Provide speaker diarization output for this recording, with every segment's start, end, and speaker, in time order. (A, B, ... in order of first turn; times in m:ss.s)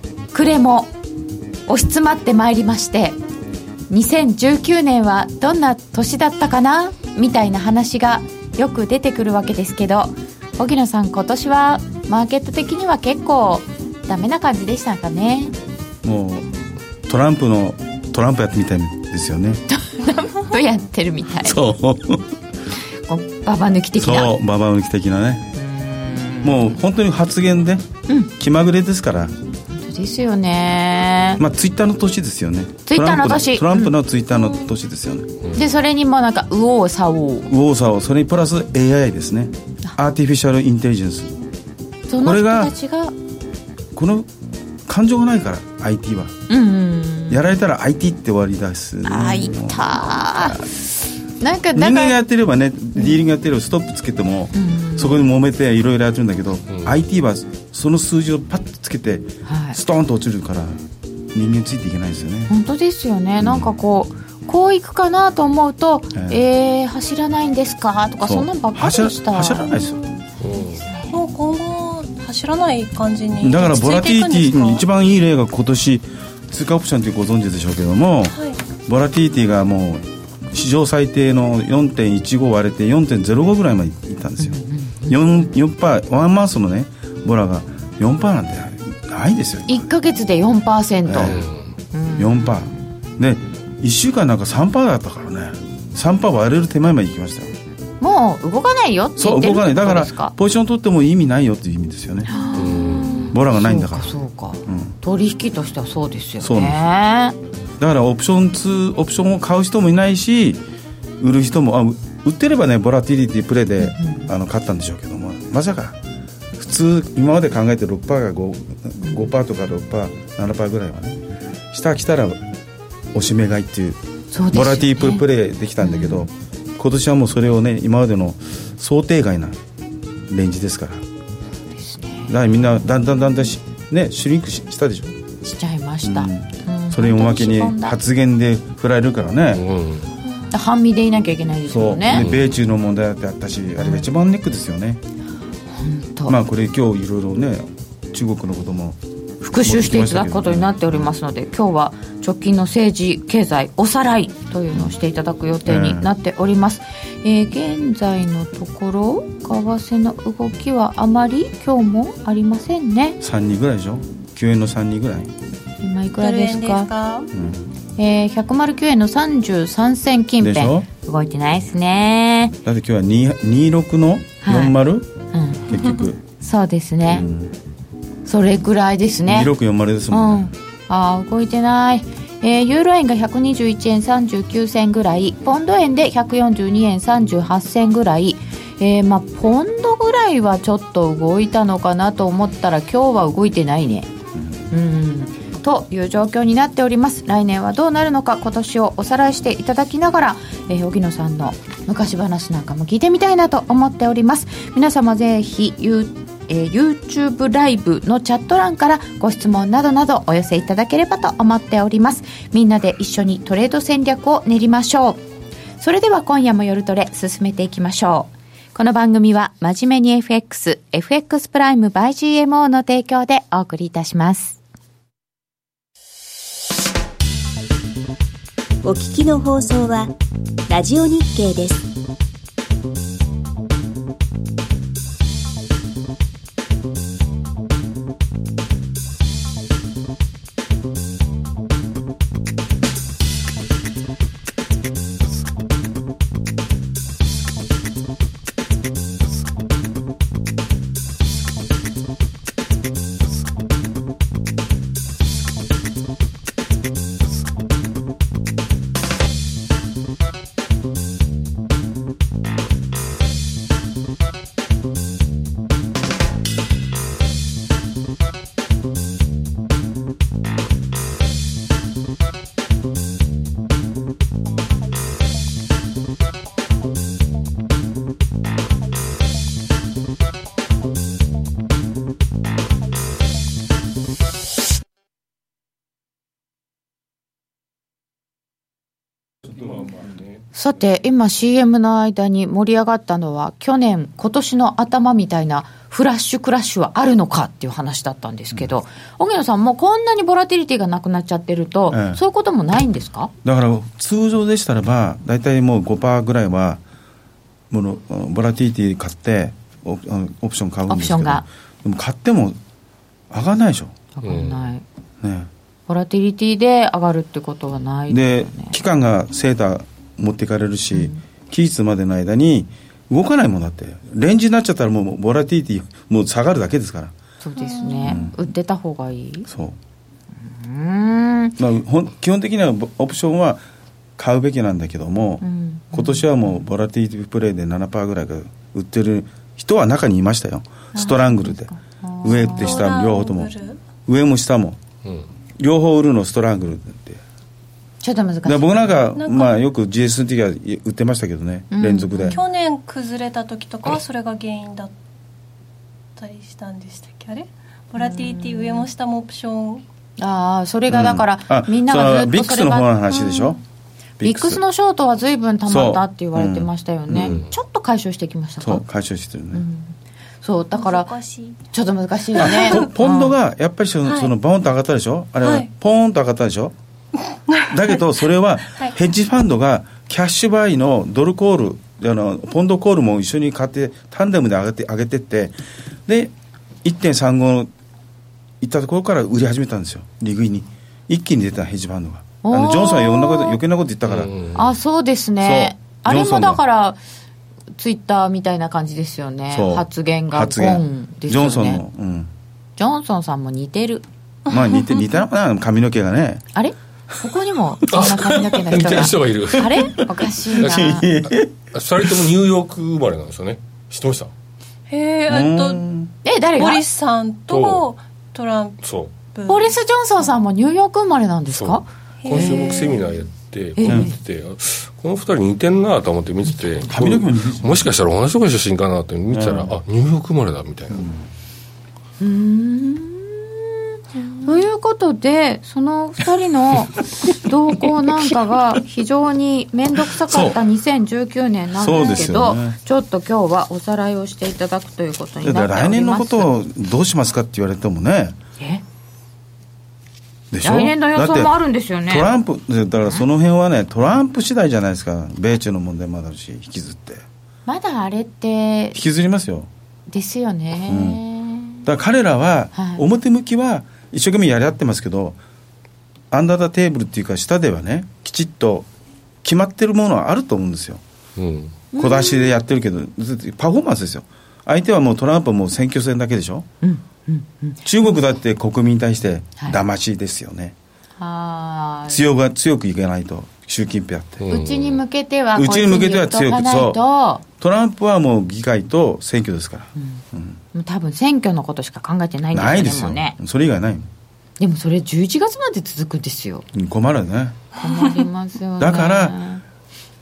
0:00.3-0:00.9 A
0:01.7-0:03.2 A
0:03.9-0:15.5 A
0:16.0-0:16.5 B
0:17.1-0:19.6 B
0:19.7-0:21.6 A
0:21.4-0:22.3 B
0:23.1-0:24.4 A
0:24.0-0:25.5 B
0:25.6-0:26.8 A
0:26.4-0:27.8 B
0:28.4-0:29.3 B
0:29.7-0:31.4 A
0:31.4-0:35.4 B
0:32.9-0:34.0 A
0:34.3-0:34.6 C
0:35.5-0:37.5 A
0:37.5-0:41.3 B
0:42.1-0:43.2 A
0:42.2-0:42.7 B
0:43.9-0:44.3 B
0:44.9-0:46.3 B
0:46.5-0:47.5 A
0:47.3-0:50.6 B
0:49.0-0:52.2 A
0:51.7-1:00.8 B
0:53.0-0:53.2 A
0:54.5-0:55.3 A
0:59.4-0:59.8 A
1:01.3-1:02.5 B
1:02.5-1:09.8 A
1:03.4-1:03.7 B
1:06.1-1:06.4 B
1:08.3-1:10.0 B
1:10.4-1:10.9 D
1:10.9-1:11.2 A
1:11.1-1:14.8 C
1:13.4-1:29.9 B
1:18.3-1:18.6 C
1:24.4-1:25.5 A
1:29.7-1:32.8 A
1:31.0-1:31.4 B
1:31.2-1:31.7 D
1:32.2-1:37.5 B
1:38.0-1:40.3 A
1:39.2-1:42.3 B
1:42.2-1:47.4 A
1:42.6-1:43.2 D
1:43.2-1:44.1 B
1:44.7-1:45.0 B
1:46.4-1:46.8 B
1:47.8-1:50.6 B
1:51.2-1:56.0 B
1:53.8-1:54.3 A
1:56.6-2:01.2 B
2:01.7-2:02.4 B
2:03.1-2:04.0 B
2:04.3-2:05.2 A
2:04.5-2:09.6 B
2:05.8-2:06.3 A
2:10.3-2:11.0 B
2:11.7-2:12.7 A
2:12.3-2:15.2 B
2:15.4-2:18.0 A
2:16.0-2:19.6 B
2:19.5-2:20.1 D
2:20.4-2:22.2 A
2:21.7-2:25.0 B
2:22.1-2:22.5 D
2:23.8-2:24.1 A
2:25.8-2:26.4 A
2:26.3-2:29.0 B
2:29.4-2:43.2 A
2:29.6-2:31.1 B
2:35.7-2:36.1 B
2:43.2-2:45.3 B
2:45.8-2:46.9 A
2:46.2-2:47.3 C
2:47.3-2:47.7 B
2:48.0-2:52.6 A
2:50.4-2:50.9 B
2:52.6-2:55.1 B
2:54.4-2:54.8 A
2:55.3-2:55.8 A
2:55.7-2:56.2 B
2:56.4-2:57.3 A
2:57.1-2:57.5 B
2:58.2-2:59.5 A
2:59.3-3:00.5 B
3:00.1-3:14.1 A
3:14.7-3:35.2 A
3:35.8-3:44.6 A
3:48.8-3:50.1 E
3:50.7-3:51.9 E
4:50.5-5:03.3 A
5:01.9-5:02.2 B
5:03.4-5:06.8 B
5:07.7-5:12.6 B
5:10.9-5:11.4 A
5:13.3-5:14.0 B
5:14.2-5:14.8 A
5:14.2-5:14.7 D
5:15.2-5:15.5 B
5:15.9-5:18.8 A
5:18.1-5:27.1 B
5:20.9-5:21.2 A
5:27.4-5:29.5 A
5:27.6-5:28.2 C
5:28.0-5:28.4 B
5:29.5-5:29.8 B
5:30.4-5:31.6 A
5:31.6-5:33.6 B
5:34.2-5:41.7 B
5:35.4-5:36.6 A
5:40.9-5:42.8 A
5:42.2-5:43.5 B
5:42.5-5:43.8 C
5:44.1-5:44.8 B
5:45.6-5:47.2 B
5:48.0-5:48.9 A
5:48.4-5:52.4 B
5:49.2-5:49.6 C
5:51.7-5:52.4 A
5:52.3-5:54.9 C
5:56.2-5:59.8 C
5:58.0-5:58.9 A
6:00.2-6:02.9 A
6:00.9-6:03.6 B
6:03.1-6:03.6 C
6:04.2-6:04.6 B
6:04.2-6:08.8 A
6:05.7-6:07.4 B
6:07.2-6:07.5 D
6:08.6-6:09.6 B
6:09.5-6:11.1 A
6:10.8-6:11.6 C
6:11.7-6:13.4 A
6:12.4-6:12.9 C
6:12.4-6:16.7 B
6:14.0-6:14.3 C
6:17.7-6:25.6 B
6:26.1-6:26.3 B
6:26.8-6:27.7 B
6:28.6-6:34.5 B
6:32.4-6:33.6 A
6:34.1-6:34.6 D
6:34.5-6:37.0 A
6:35.4-6:36.6 B
6:37.8-6:41.8 A
6:39.5-6:42.3 B
6:42.8-6:44.0 A
6:44.5-6:45.1 C
6:44.5-6:46.4 B
6:46.5-6:51.1 A
6:47.9-6:50.1 D
6:47.9-6:52.2 B
6:50.6-6:54.3 D
6:54.9-6:55.8 C
6:55.3-6:56.1 B
6:56.2-6:56.8 A
6:56.6-6:59.7 C
6:57.5-6:57.9 D
6:58.8-6:59.1 D
6:59.5-7:02.9 A
7:01.5-7:11.1 D
7:02.2-7:03.2 C
7:03.8-7:04.2 A
7:06.4-7:06.9 A
7:06.9-7:07.9 B
7:09.3-7:09.8 B
7:10.9-7:11.2 B
7:12.2-7:13.8 A
7:14.4-7:26.5 A
7:20.2-7:20.6 B
7:21.8-7:22.8 B
7:25.4-7:28.4 B
7:28.6-7:28.8 A
7:30.5-7:31.6 B
7:30.6-7:32.3 A
7:32.1-7:37.2 B
7:37.7-7:39.0 A
7:39.0-7:39.7 B
7:40.1-7:41.9 A
7:40.9-7:41.2 B
7:41.8-7:45.4 B
7:42.8-7:43.0 A
7:46.3-7:48.9 B
7:49.4-7:51.0 B
7:51.4-7:51.8 D
7:51.9-7:52.6 A
7:52.0-7:56.7 B
7:56.8-7:58.1 A
7:57.8-8:00.8 B
8:01.2-8:02.2 A
8:02.1-8:04.4 B
8:04.4-8:05.0 D
8:04.5-8:07.4 A
8:05.6-8:07.0 B
8:07.6-8:10.6 B
8:10.0-8:13.4 A
8:12.5-8:14.1 B
8:14.6-8:16.6 A
8:16.7-8:17.6 B
8:17.8-8:19.6 A
8:18.8-8:19.4 B